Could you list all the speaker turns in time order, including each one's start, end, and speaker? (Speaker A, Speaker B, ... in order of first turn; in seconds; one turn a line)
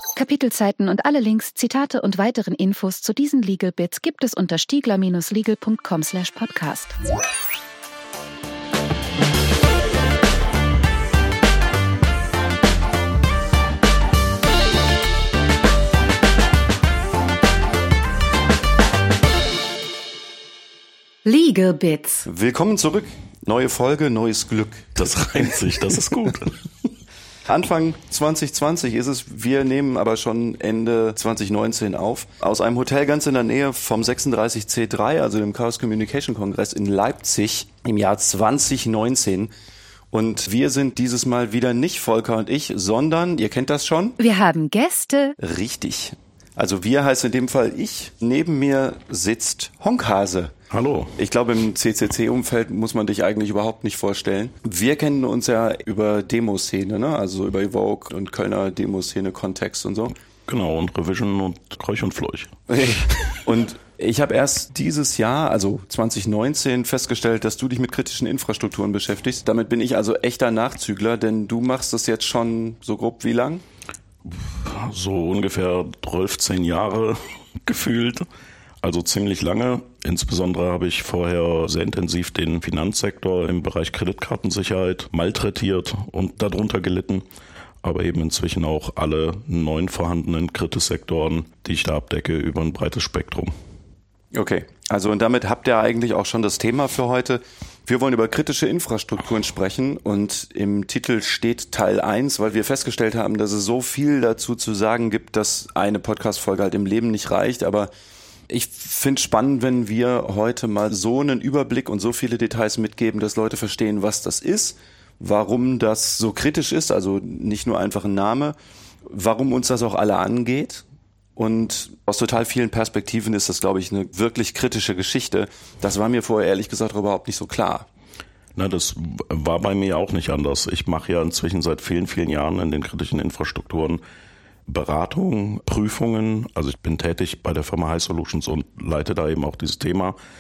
Speaker A: 0.2-7.0
Speaker A: 21.2-22.3
Speaker B: 22.3-24.9
Speaker C: 25.0-26.6
Speaker B: 27.5-39.5
Speaker B: 40.1-44.2
Speaker A: 44.2-45.4
Speaker B: 45.4-50.5
Speaker C: 50.7-51.1
Speaker B: 51.2-60.1
Speaker C: 60.5-63.4
Speaker B: 62.7-73.6
Speaker C: 74.2-78.3
Speaker C: 78.8-87.2
Speaker C: 87.8-93.5
Speaker B: 94.3-107.9
Speaker B: 108.5-118.5
Speaker B: 119.1-120.8
Speaker B: 121.4-127.9
Speaker C: 128.6-134.0
Speaker C: 134.7-140.2